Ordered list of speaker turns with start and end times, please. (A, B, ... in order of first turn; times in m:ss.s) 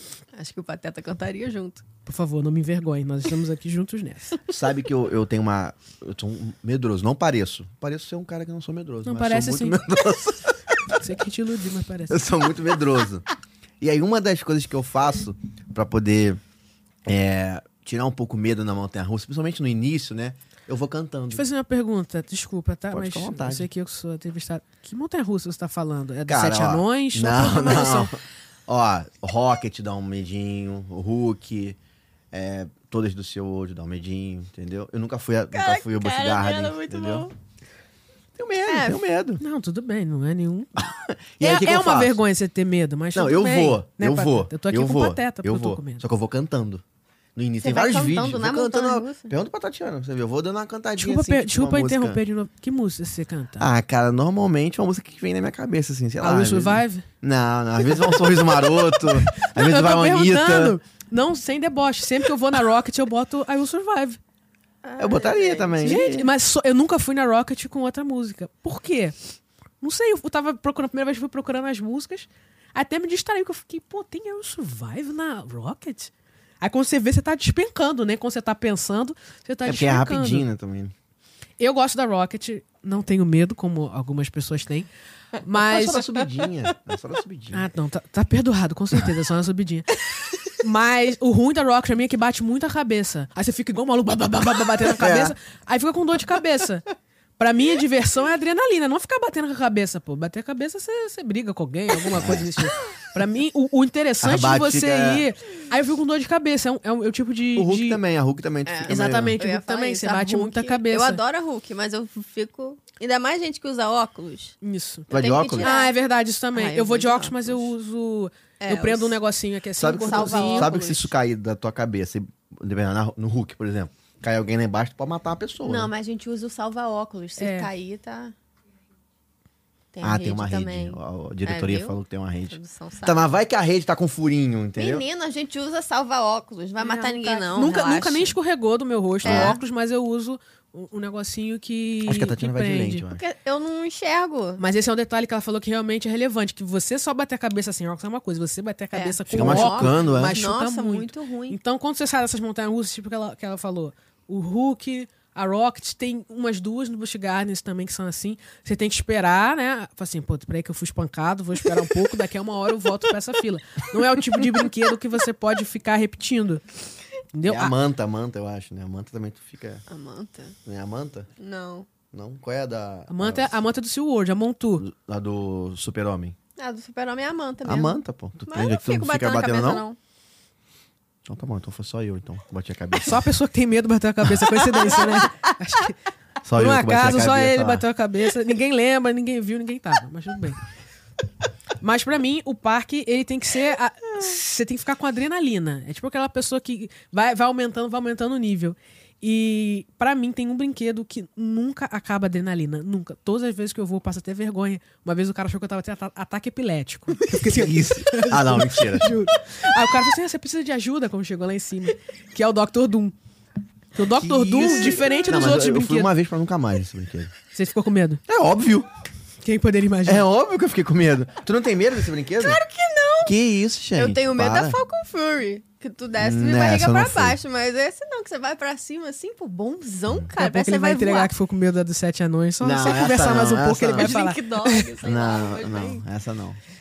0:00.4-0:01.8 A
0:02.1-0:04.4 B
0:04.5-0:10.9 C
0:09.0-0:09.8 B
0:11.0-0:12.2 B
0:12.1-0:13.2 C
0:13.8-0:16.4 C
0:17.1-0:21.4 C
0:21.3-0:28.1 B
0:22.9-0:23.7 C
0:26.3-0:31.8 C
0:32.3-0:37.3 C
0:35.5-0:37.3 A
0:38.4-0:39.4 C
0:38.7-0:39.0 A
0:39.4-0:40.8 B
0:40.8-0:42.2 C
0:41.4-0:46.0 B
0:43.1-0:46.8 C
0:47.4-0:52.2 C
0:47.6-0:49.3 A
0:51.0-0:53.7 B
0:53.6-1:00.8 C
0:56.2-0:57.1 B
0:58.0-1:04.2 B
1:04.8-1:06.0 A
1:05.0-1:06.3 C
1:05.8-1:09.2 B
1:09.8-1:20.5 B
1:19.6-1:20.9 C
1:21.6-1:24.9 B
1:25.4-1:26.1 B
1:25.6-1:27.7 C
1:27.5-1:30.0 B
1:30.6-1:36.9 B
1:35.0-1:35.4 C
1:37.4-1:48.0 B
1:42.1-1:42.5 C
1:44.2-1:45.3 C
1:47.6-1:49.4 C
1:48.7-1:54.6 A
1:48.9-1:51.2 B
1:54.6-2:00.7 B
1:55.1-1:55.8 C
1:55.1-1:55.9 A
1:56.5-1:57.7 A
1:58.6-1:59.2 A
1:59.8-2:05.9 C
2:00.0-2:01.1 A
2:05.6-2:08.3 A
2:07.4-2:07.7 B
2:09.9-2:12.0 A
2:10.0-2:15.0 C
2:12.5-2:13.2 A
2:14.8-2:18.4 A
2:16.8-2:23.0 B
2:19.2-2:19.6 C
2:19.2-2:19.6 A
2:22.0-2:23.2 C
2:23.1-2:24.6 A
2:24.6-2:46.6 B
2:28.9-2:31.6 A
2:29.3-2:30.4 C
2:47.3-2:47.8 B
2:47.5-2:49.8 C
2:49.9-2:50.6 A
2:50.6-2:51.3 C
2:51.4-2:51.9 A
2:52.1-2:53.5 C
2:53.1-2:54.8 B
2:54.8-2:56.4 C
2:56.6-3:00.0 A
2:57.6-2:59.8 C
3:01.2-3:03.2 C
3:03.0-3:06.0 B
3:04.8-3:05.5 A
3:06.4-3:07.8 C
3:06.5-3:10.6 B
3:11.8-3:33.2 B
3:27.4-3:29.2 C
3:34.0-3:36.1 B
3:34.2-3:37.3 C
3:37.5-3:38.2 B
3:38.3-3:38.9 C
3:39.4-3:40.3 B
3:40.1-3:42.6 C
3:42.4-3:43.4 A
3:43.2-3:44.8 C
3:44.0-3:51.3 A
3:46.2-3:47.4 C
3:50.4-3:54.9 B
3:52.6-3:54.2 C
3:53.9-3:56.0 A
3:55.0-3:56.6 C